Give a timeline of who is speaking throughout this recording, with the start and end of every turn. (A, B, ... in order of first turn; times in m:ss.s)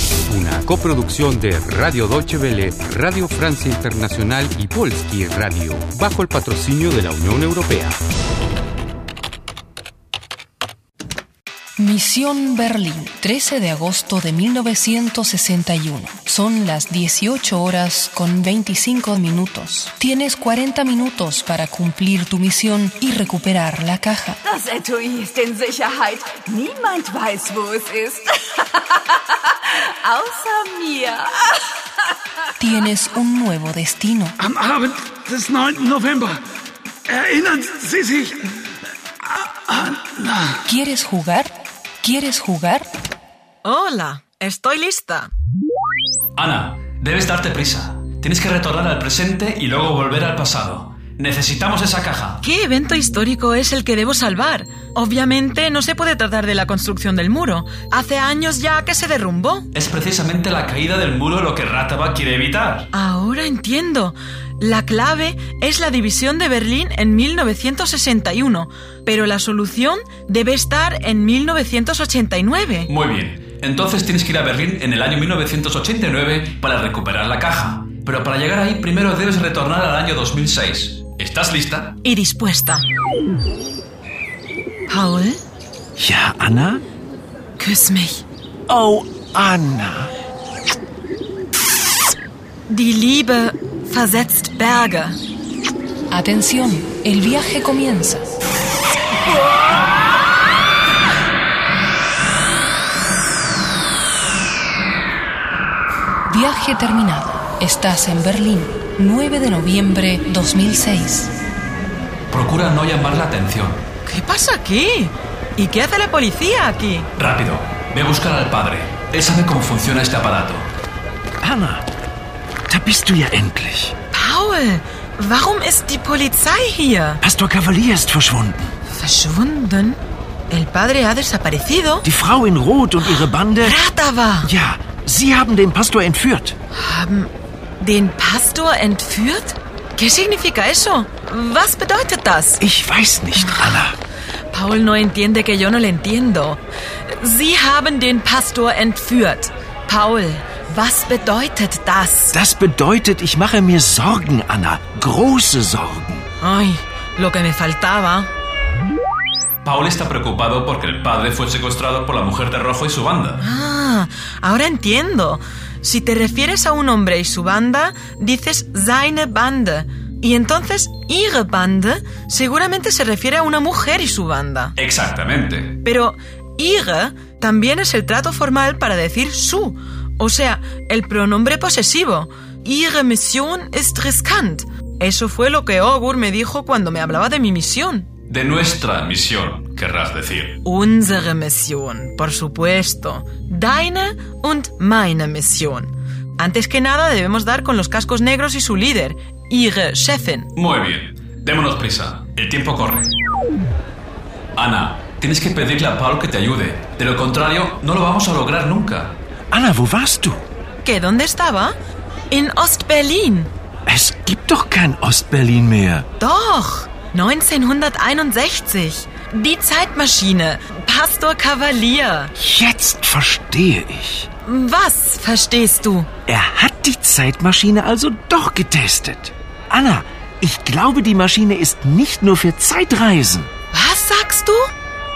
0:00.3-0:08.0 A
0:11.8-0:24.4 B
0:24.4-0:28.3 C
0:30.0-0:31.3 C
0:32.6-0:34.4 B
0:34.4-0:36.4 D
0:37.1-0:38.4 D
0:39.8-0:40.4 D
0:40.6-0:42.9 B
0:43.6-0:45.3 E
0:46.4-0:52.4 F
0:52.4-0:59.7 E
0:59.7-1:02.9 F
1:02.9-1:12.9 E
1:12.9-1:22.0 F
1:22.0-1:22.8 E
1:24.9-1:25.4 E
1:26.0-1:26.8 G
1:27.6-1:28.2 E
1:28.7-1:30.1 G
1:32.7-1:35.2 E
1:36.1-1:38.2 B
1:46.3-1:51.3 B
1:52.3-1:53.8 F
1:54.0-1:57.1 E
1:57.2-2:00.7 F
2:01.4-2:01.9 G
2:02.7-2:03.9 G
2:04.1-2:07.2 E
2:07.2-2:08.7 G
2:08.9-2:10.0 E
2:10.5-2:12.0 E
2:12.0-2:13.8 G
2:13.6-2:14.5 E
2:14.4-2:16.5 G
2:16.7-2:22.6 E
2:22.6-2:24.0 G
2:24.5-2:32.3 E
2:32.3-2:36.2 G
2:36.4-2:38.3 E
2:39.6-2:43.4 F
2:43.4-2:54.7 E
2:54.8-2:55.8 F
2:55.8-3:08.1 E
3:08.3-3:10.6 F
3:10.6-3:20.5 E
3:20.5-3:23.1 F
3:24.6-3:29.2 F
3:29.5-3:30.4 G
3:30.8-3:31.8 E
3:32.3-3:33.5 E
3:33.9-3:36.1 G
3:36.2-3:42.3 E
3:42.4-3:44.3 G
3:44.4-3:46.1 E
3:46.3-3:53.5 G
3:53.7-3:54.7 E